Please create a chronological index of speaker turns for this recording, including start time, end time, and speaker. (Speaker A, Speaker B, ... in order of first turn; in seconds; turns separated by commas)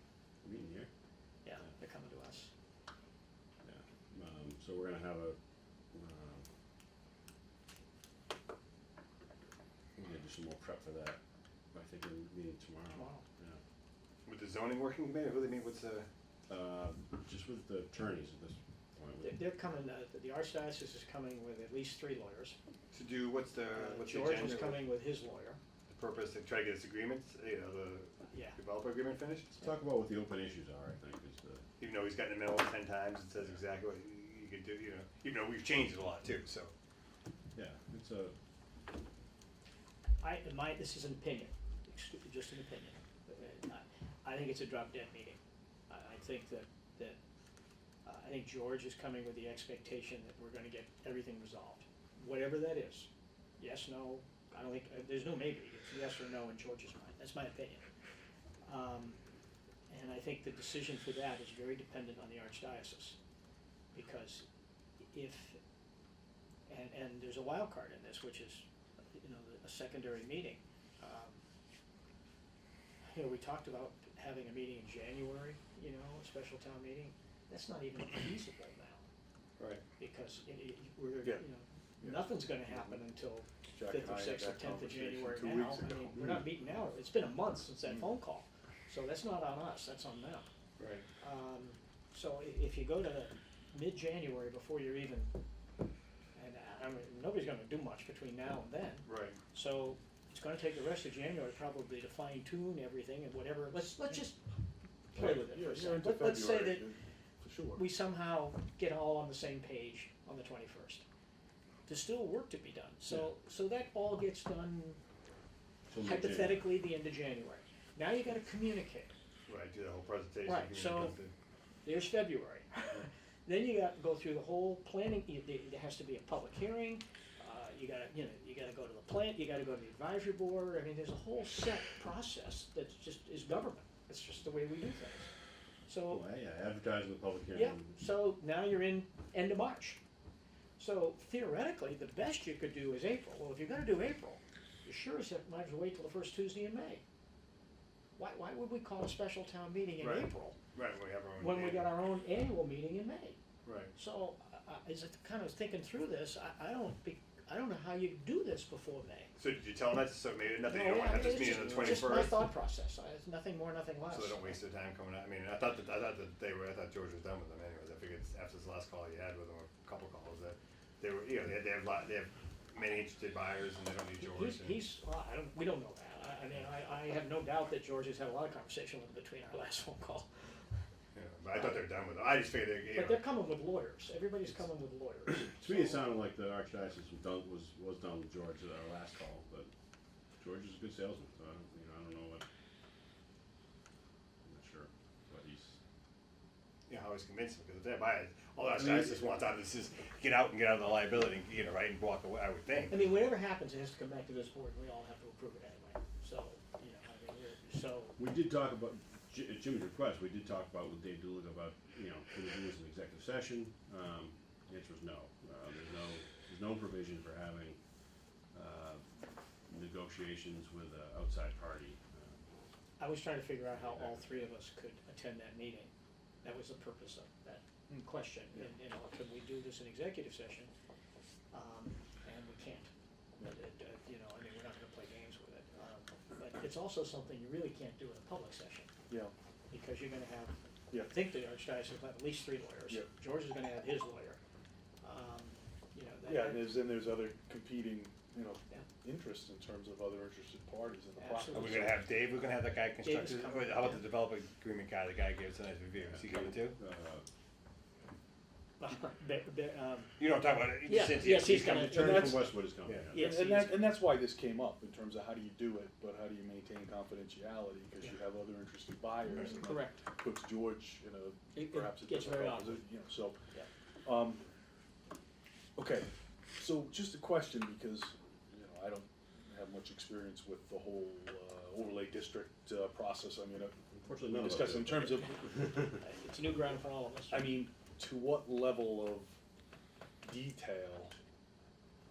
Speaker A: 0.4-0.9, Speaker B: 1.4-2.5, Speaker A: 3.6-5.4, Speaker A: 5.9-6.5, Speaker A: 10.0-11.2, Speaker A: 11.7-13.6, Speaker B: 12.9-13.2, Speaker C: 14.2-16.1, Speaker A: 16.5-19.4, Speaker B: 19.2-22.6, Speaker C: 22.9-24.9, Speaker B: 23.7-25.6, Speaker C: 25.9-29.5, Speaker B: 28.3-28.6, Speaker A: 29.5-31.6, Speaker C: 31.8-36.7, Speaker A: 37.5-38.3, Speaker B: 40.2-45.4, Speaker B: 45.9-47.2, Speaker B: 48.0-57.8, Speaker B: 58.6-59.2, Speaker B: 59.9-63.2, Speaker B: 63.9-64.4, Speaker B: 65.1-65.6, Speaker B: 66.7-71.4, Speaker B: 73.1-79.0, Speaker B: 80.0-90.5, Speaker D: 82.0-83.0, Speaker D: 83.7-86.5, Speaker C: 90.8-91.0, Speaker B: 91.2-95.3, Speaker B: 96.3-104.4, Speaker C: 99.0-99.4, Speaker B: 105.1-106.9, Speaker D: 105.1-107.8, Speaker B: 107.7-111.0, Speaker B: 111.9-115.0, Speaker A: 115.9-116.6, Speaker B: 116.0-119.1, Speaker C: 119.5-121.3, Speaker B: 120.4-121.2, Speaker B: 121.8-135.3, Speaker B: 135.9-136.2, Speaker A: 136.1-137.9, Speaker B: 137.5-140.0, Speaker B: 140.8-147.0, Speaker B: 148.2-150.6, Speaker C: 150.0-151.9, Speaker B: 151.4-153.4, Speaker C: 153.6-153.9, Speaker B: 153.9-159.3, Speaker C: 159.4-162.5, Speaker B: 160.6-164.6, Speaker C: 164.1-174.8, Speaker B: 174.2-180.3, Speaker C: 181.1-183.2, Speaker B: 181.5-181.9, Speaker B: 182.9-186.1, Speaker A: 185.4-189.7, Speaker A: 190.4-192.4, Speaker A: 194.4-195.8, Speaker C: 196.9-203.1, Speaker A: 198.7-199.3, Speaker B: 202.9-208.2, Speaker A: 208.2-217.8, Speaker A: 218.5-219.0, Speaker A: 219.7-222.4, Speaker B: 223.0-225.9, Speaker A: 223.7-224.2, Speaker B: 226.4-230.7, Speaker B: 231.5-232.9, Speaker B: 233.4-238.9, Speaker B: 239.7-244.4, Speaker B: 245.0-246.8, Speaker D: 246.3-252.0, Speaker B: 251.2-252.0, Speaker C: 251.5-256.8, Speaker B: 253.0-253.7, Speaker A: 256.0-257.2, Speaker B: 258.8-260.2, Speaker C: 260.2-263.1, Speaker B: 260.8-262.5, Speaker A: 261.2-263.3, Speaker D: 261.9-262.3, Speaker D: 263.1-273.4, Speaker B: 263.1-263.9, Speaker B: 269.2-270.0, Speaker B: 271.5-272.8, Speaker D: 274.0-274.4, Speaker D: 275.8-283.8, Speaker A: 284.0-286.0, Speaker D: 284.3-285.4, Speaker B: 286.0-287.5, Speaker D: 287.3-289.4, Speaker D: 290.2-291.1